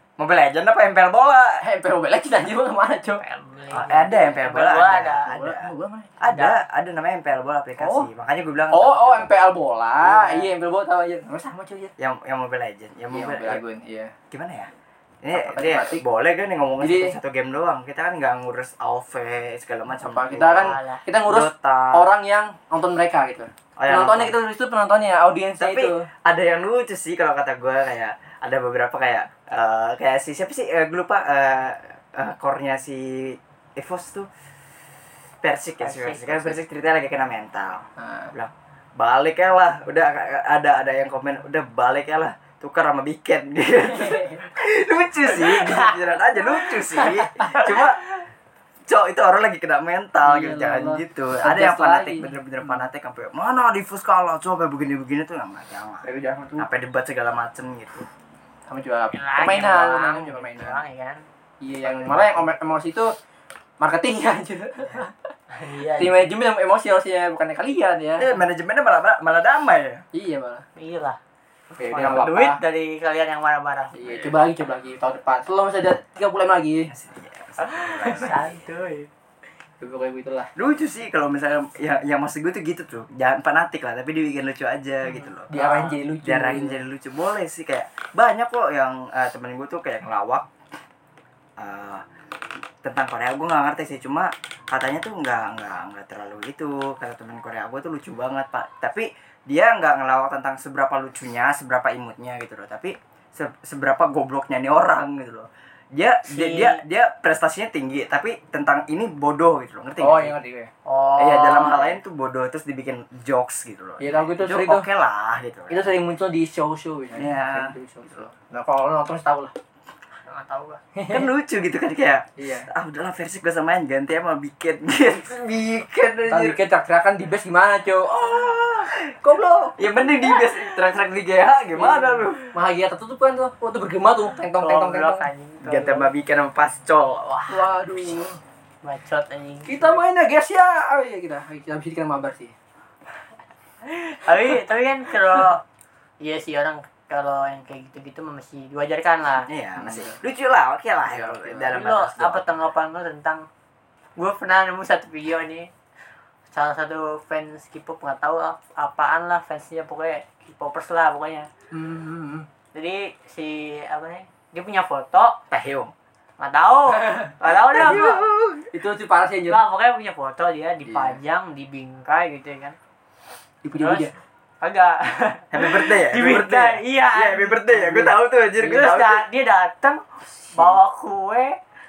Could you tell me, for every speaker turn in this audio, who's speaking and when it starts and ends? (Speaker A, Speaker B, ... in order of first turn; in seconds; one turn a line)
Speaker A: 0.2-1.6
Speaker B: 1.6-3.2
Speaker C: 3.2-5.3
Speaker A: 3.7-9.3
Speaker B: 5.3-6.2
Speaker C: 6.3-6.5
Speaker B: 7.8-8.1
Speaker B: 8.7-11.9
Speaker C: 10.0-10.5
Speaker A: 12.0-13.6
Speaker B: 13.1-14.1
Speaker A: 14.3-14.7
Speaker A: 15.2-22.1
Speaker B: 15.3-16.0
Speaker B: 16.8-17.2
Speaker B: 20.0-26.1
Speaker C: 20.6-21.0
Speaker A: 23.8-24.4
Speaker A: 25.6-34.3
Speaker A: 35.4-48.0
Speaker C: 35.8-36.6
Speaker B: 38.0-38.3
Speaker C: 45.7-46.0
Speaker C: 46.6-47.7
Speaker A: 48.9-58.1
Speaker B: 50.2-52.9
Speaker B: 56.0-56.7
Speaker B: 58.7-60.8
Speaker C: 59.1-61.2
Speaker B: 61.6-63.1
Speaker A: 61.9-62.3
Speaker C: 61.9-62.5
Speaker B: 63.8-65.3
Speaker C: 65.5-66.3
Speaker B: 66.0-68.3
Speaker A: 68.2-70.0
Speaker B: 70.1-70.6
Speaker C: 70.8-71.2
Speaker B: 71.8-72.6
Speaker C: 71.8-73.9
Speaker B: 73.9-76.9
Speaker A: 76.9-78.5
Speaker C: 77.6-79.1
Speaker B: 79.8-80.5
Speaker A: 80.5-85.5
Speaker B: 85.5-86.8
Speaker C: 85.5-86.0
Speaker A: 86.2-90.5
Speaker A: 91.6-92.0
Speaker A: 92.8-110.3
Speaker C: 106.2-106.8
Speaker B: 110.0-110.7
Speaker C: 110.8-112.0
Speaker A: 111.2-115.9
Speaker B: 114.0-114.9
Speaker B: 115.7-119.5
Speaker A: 117.1-117.7
Speaker C: 120.2-120.8
Speaker B: 120.9-121.3
Speaker A: 121.1-126.6
Speaker B: 122.4-122.7
Speaker B: 126.3-128.7
Speaker A: 128.2-129.2
Speaker B: 129.2-129.8
Speaker A: 129.8-132.4
Speaker B: 131.8-135.3
Speaker C: 134.6-136.1
Speaker A: 135.6-137.4
Speaker B: 137.5-138.4
Speaker C: 138.8-140.0
Speaker B: 139.7-142.5
Speaker C: 143.8-145.6
Speaker C: 146.2-149.5
Speaker A: 149.5-152.4
Speaker B: 149.8-150.2
Speaker B: 151.1-151.8
Speaker C: 151.7-153.4
Speaker C: 154.2-155.7
Speaker C: 156.5-161.5
Speaker B: 161.7-162.5
Speaker C: 162.7-165.4
Speaker A: 165.5-165.9
Speaker C: 166.4-168.2
Speaker B: 167.0-169.6
Speaker A: 167.4-168.7
Speaker C: 169.5-172.8
Speaker B: 170.8-171.2
Speaker B: 173.6-174.1
Speaker C: 173.8-178.1
Speaker A: 175.5-179.2
Speaker B: 177.7-178.9
Speaker C: 178.6-181.6